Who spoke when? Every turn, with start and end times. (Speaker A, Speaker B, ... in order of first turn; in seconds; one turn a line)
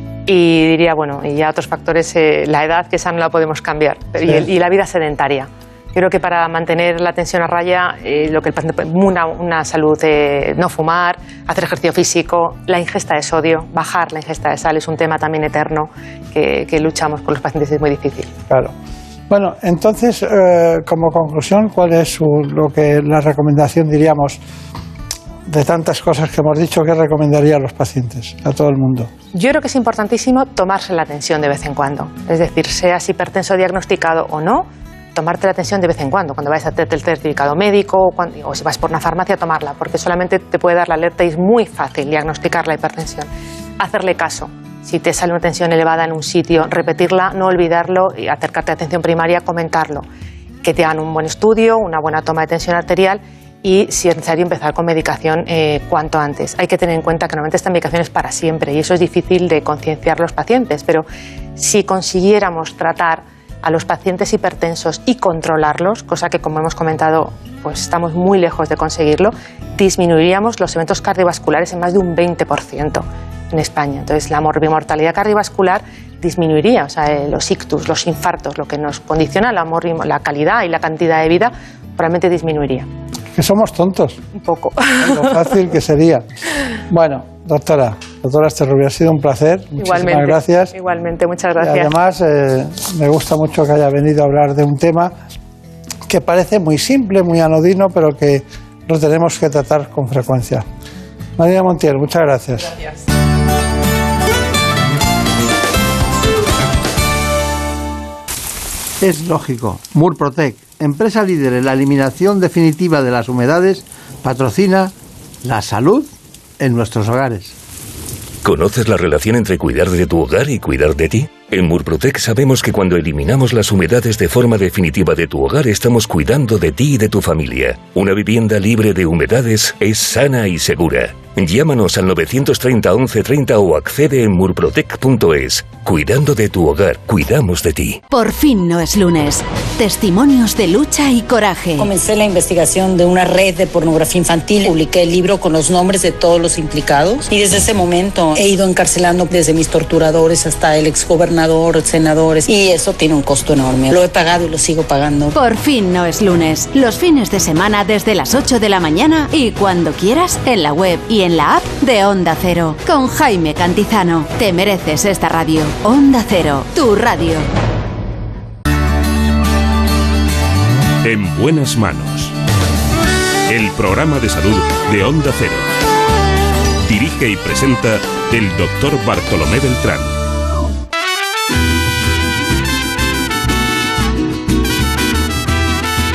Speaker A: 0.3-18.3
Speaker B: 19.3-24.4
Speaker B: 25.5-29.1
Speaker A: 29.3-50.0
Speaker A: 50.6-82.9
Speaker B: 83.3-84.2
Speaker A: 84.3-85.5
Speaker B: 85.0-86.2
Speaker B: 86.9-90.7
Speaker A: 89.8-91.9
Speaker B: 91.6-95.1
Speaker B: 96.1-100.7
Speaker B: 101.4-102.7
Speaker B: 109.0-114.9
Speaker B: 115.4-117.6
Speaker C: 118.4-138.0
Speaker D: 138.1-141.9
Speaker E: 141.8-155.3
Speaker D: 155.3-167.5
Speaker F: 171.0-172.4
Speaker F: 173.5-175.7
Speaker F: 176.9-180.1